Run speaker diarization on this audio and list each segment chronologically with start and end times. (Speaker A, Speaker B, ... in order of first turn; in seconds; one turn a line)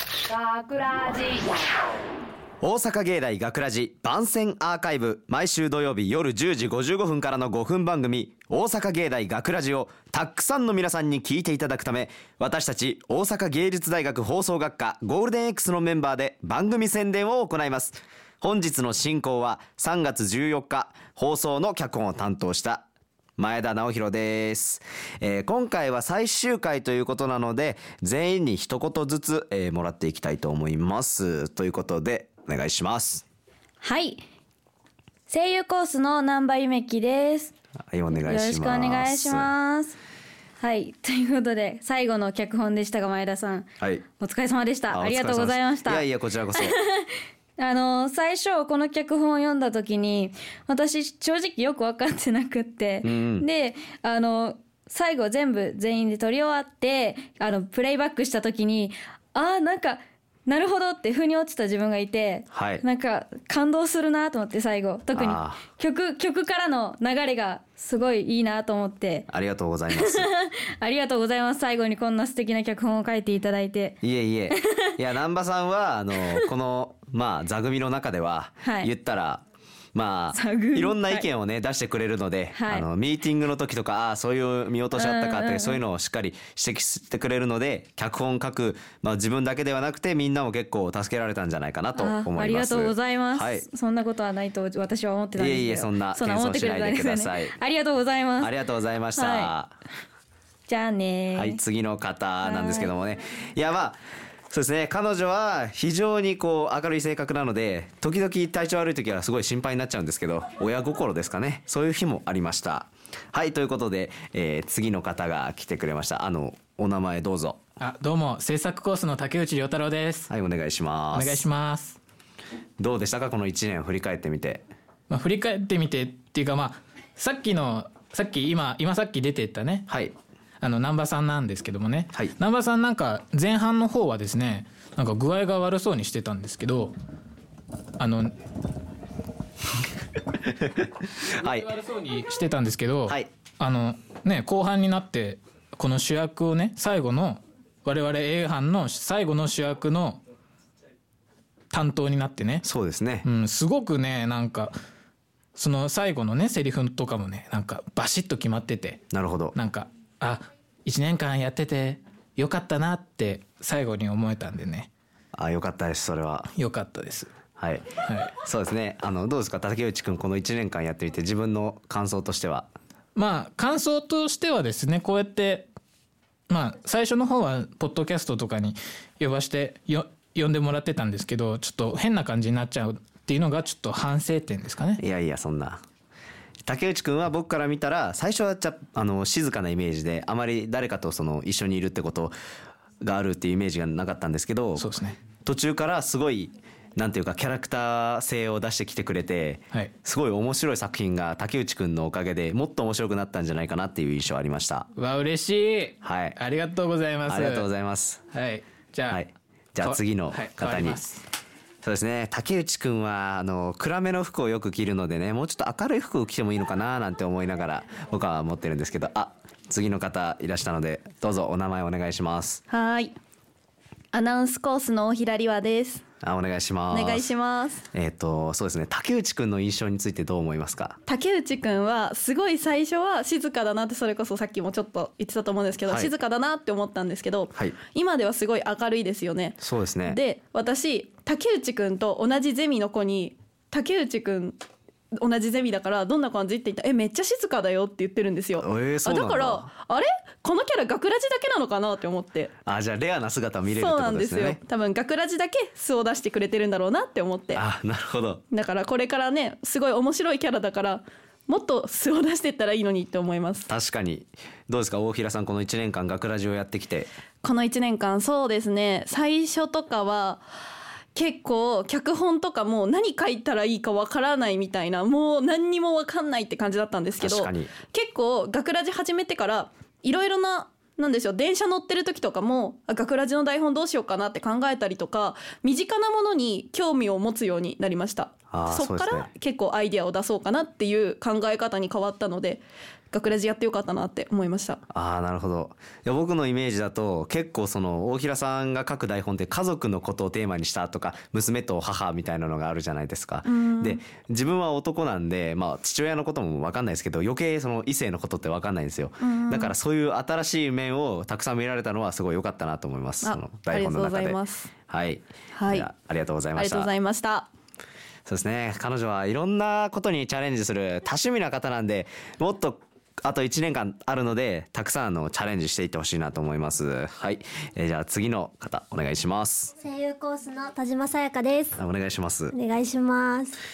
Speaker A: 0.3-1.2
Speaker B: 2.6-22.9
Speaker B: 23.4-33.2
Speaker A: 33.8-34.2
Speaker A: 35.3-37.5
Speaker B: 37.9-39.5
Speaker A: 38.1-40.0
Speaker A: 40.6-43.7
Speaker A: 44.2-46.0
Speaker B: 44.9-46.8
Speaker A: 46.6-47.1
Speaker A: 47.6-69.2
Speaker B: 53.0-53.5
Speaker B: 62.5-62.8
Speaker B: 65.1-65.6
Speaker B: 69.3-70.3
Speaker A: 69.9-74.0
Speaker B: 74.0-93.7
Speaker A: 78.6-78.9
Speaker A: 80.3-81.2
Speaker A: 82.5-82.8
Speaker A: 84.9-85.8
Speaker A: 92.0-98.5
Speaker B: 95.4-97.5
Speaker B: 98.4-99.7
Speaker A: 99.2-99.5
Speaker A: 100.7-101.6
Speaker B: 101.3-104.0
Speaker A: 102.4-102.9
Speaker B: 104.5-117.6
Speaker C: 117.8-120.3
Speaker B: 120.3-121.4
Speaker C: 121.1-122.0
Speaker B: 122.8-124.6
Speaker C: 125.1-129.9
Speaker B: 129.9-130.1
Speaker C: 130.6-136.9
Speaker C: 138.0-138.3
Speaker B: 141.4-141.7
Speaker C: 141.6-150.2
Speaker C: 151.7-152.6
Speaker B: 152.6-153.2
Speaker C: 153.2-154.8
Speaker C: 155.5-159.0
Speaker B: 159.1-159.5
Speaker C: 159.5-164.9
Speaker B: 165.3-166.5
Speaker C: 166.5-167.3
Speaker B: 167.6-167.9
Speaker C: 168.1-168.3
Speaker B: 168.4-172.7
Speaker C: 173.1-175.7
Speaker C: 176.5-185.0
Speaker B: 185.0-185.8
Speaker B: 186.6-192.3
Speaker B: 193.0-194.9
Speaker C: 194.8-195.2
Speaker B: 195.4-204.9
Speaker C: 204.9-207.7
Speaker B: 206.0-206.4
Speaker B: 207.3-208.2
Speaker C: 208.3-209.2
Speaker B: 209.1-211.0
Speaker C: 209.8-211.2
Speaker B: 211.8-222.6
Speaker D: 222.7-223.1
Speaker D: 224.1-226.0
Speaker B: 226.2-227.3
Speaker D: 226.9-227.9
Speaker B: 227.9-231.0
Speaker D: 231.1-239.6
Speaker B: 239.6-240.2
Speaker D: 240.1-244.6
Speaker D: 245.2-252.5
Speaker B: 248.6-249.7
Speaker B: 252.6-254.6
Speaker D: 253.7-257.6
Speaker B: 257.5-258.4
Speaker D: 258.5-263.7
Speaker B: 263.7-267.1
Speaker D: 267.4-270.5
Speaker D: 271.1-294.8
Speaker B: 277.2-277.7
Speaker B: 288.5-289.3
Speaker B: 294.9-316.9
Speaker D: 303.5-304.0
Speaker D: 309.2-309.7
Speaker D: 313.2-314.7
Speaker D: 315.6-315.9
Speaker D: 316.6-317.5
Speaker B: 318.2-329.7
Speaker E: 329.8-331.8
Speaker B: 331.8-332.6
Speaker E: 332.5-333.6